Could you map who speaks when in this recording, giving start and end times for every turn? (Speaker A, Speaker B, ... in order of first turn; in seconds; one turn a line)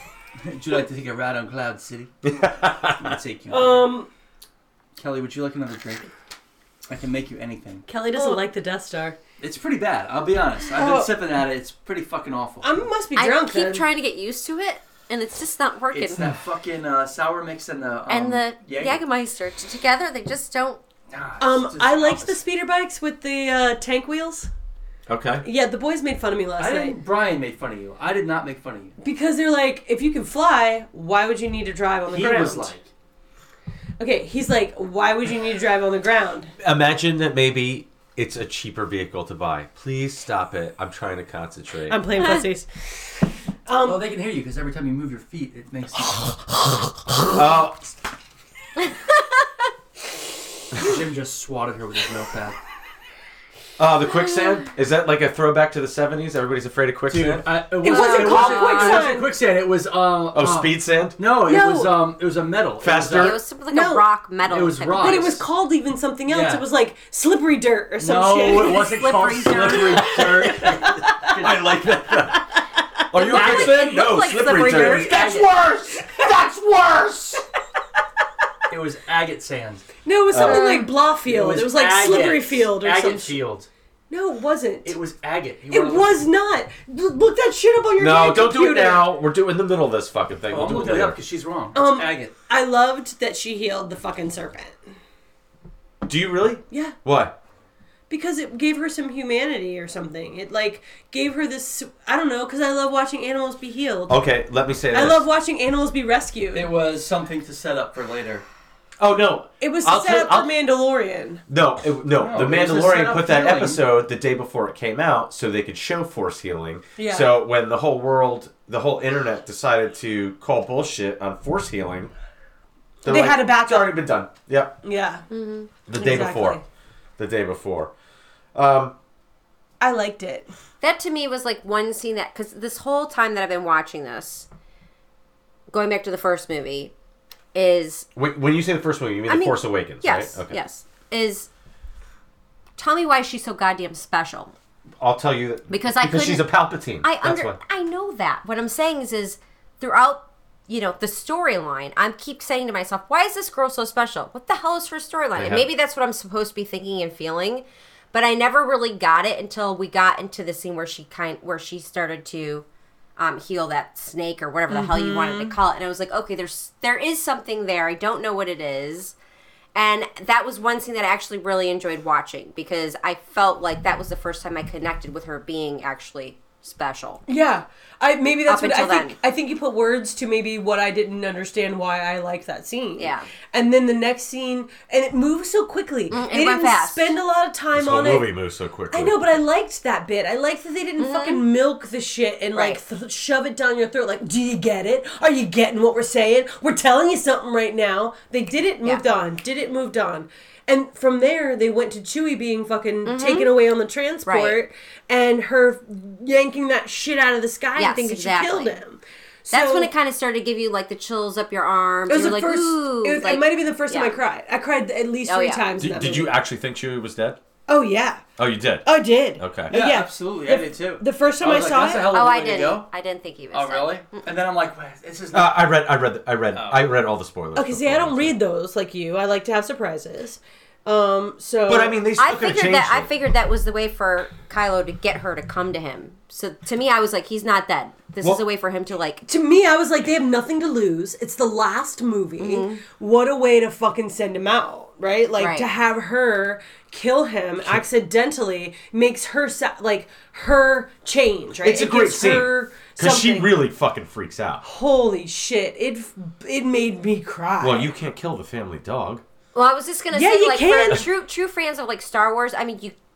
Speaker A: 0.4-2.1
Speaker B: 2.2-3.1
Speaker A: 3.0-3.8
Speaker C: 3.5-4.1
Speaker A: 5.0-6.1
Speaker A: 6.9-7.9
Speaker C: 7.9-9.2
Speaker A: 9.4-12.8
Speaker C: 10.7-11.1
Speaker C: 12.6-13.8
Speaker D: 13.2-16.3
Speaker A: 15.9-19.0
Speaker D: 18.1-20.8
Speaker A: 21.1-22.4
Speaker C: 21.4-24.5
Speaker B: 25.1-25.4
Speaker C: 25.4-26.9
Speaker A: 26.6-28.9
Speaker C: 29.0-32.7
Speaker A: 32.1-32.9
Speaker C: 34.0-36.5
Speaker B: 36.6-42.1
Speaker C: 41.9-42.8
Speaker C: 43.6-44.0
Speaker A: 43.8-46.5
Speaker B: 47.3-47.9
Speaker A: 50.7-52.6
Speaker B: 53.8-57.4
Speaker A: 57.1-63.4
Speaker C: 57.8-59.3
Speaker D: 57.8-59.0
Speaker B: 60.3-61.2
Speaker C: 61.4-62.0
Speaker B: 62.8-63.4
Speaker D: 63.1-65.4
Speaker C: 63.7-64.0
Speaker A: 64.4-65.4
Speaker C: 64.9-69.2
Speaker A: 66.3-66.6
Speaker A: 68.0-71.8
Speaker D: 68.7-70.8
Speaker C: 69.7-71.4
Speaker B: 71.4-72.5
Speaker B: 73.1-75.5
Speaker D: 73.1-75.5
Speaker A: 73.3-73.7
Speaker A: 74.6-75.5
Speaker E: 75.2-77.4
Speaker A: 78.7-79.9
Speaker C: 80.0-83.4
Speaker B: 80.3-80.7
Speaker D: 80.4-80.9
Speaker A: 81.2-83.7
Speaker C: 84.1-85.0
Speaker A: 84.8-86.2
Speaker C: 85.7-89.0
Speaker B: 88.0-91.2
Speaker A: 90.5-92.3
Speaker C: 91.7-94.8
Speaker B: 96.0-97.4
Speaker C: 98.1-104.2
Speaker B: 104.1-105.2
Speaker C: 104.9-106.7
Speaker A: 106.5-108.4
Speaker B: 109.0-110.5
Speaker C: 109.6-111.4
Speaker B: 111.5-122.1
Speaker A: 112.1-113.8
Speaker C: 117.0-117.3
Speaker B: 123.0-124.8
Speaker C: 123.0-124.0
Speaker C: 124.8-125.2
Speaker D: 125.3-125.7
Speaker B: 125.8-126.6
Speaker C: 125.9-126.6
Speaker B: 127.2-127.9
Speaker B: 128.5-128.9
Speaker C: 129.8-130.5
Speaker D: 130.8-134.5
Speaker D: 135.7-136.9
Speaker D: 137.5-138.1
Speaker B: 138.2-140.6
Speaker D: 139.3-141.5
Speaker D: 142.8-144.5
Speaker B: 145.0-147.6
Speaker D: 145.7-162.6
Speaker B: 155.3-155.7
Speaker D: 163.2-169.1
Speaker C: 164.7-165.6
Speaker D: 169.7-177.2
Speaker C: 177.3-188.3
Speaker D: 178.5-179.2
Speaker D: 183.0-183.3
Speaker D: 186.1-187.2
Speaker B: 187.7-189.4
Speaker C: 188.9-209.9
Speaker D: 191.0-191.4
Speaker D: 203.1-203.5
Speaker D: 204.2-204.6
Speaker D: 207.8-208.8
Speaker D: 209.5-214.2
Speaker C: 212.1-216.3
Speaker D: 215.2-215.7
Speaker B: 215.8-217.4
Speaker C: 217.7-218.2
Speaker B: 218.4-218.8
Speaker C: 218.8-222.2
Speaker B: 219.4-219.7
Speaker A: 219.7-222.9
Speaker D: 222.1-224.2
Speaker A: 223.5-225.7
Speaker B: 225.3-228.3
Speaker A: 226.5-227.0
Speaker C: 227.5-232.0
Speaker B: 231.7-233.1
Speaker D: 232.2-239.2
Speaker C: 239.2-253.6
Speaker D: 242.4-242.8
Speaker D: 245.4-245.7
Speaker B: 251.6-254.6
Speaker C: 254.6-257.9
Speaker B: 257.6-259.2
Speaker D: 259.5-262.9
Speaker C: 260.1-261.1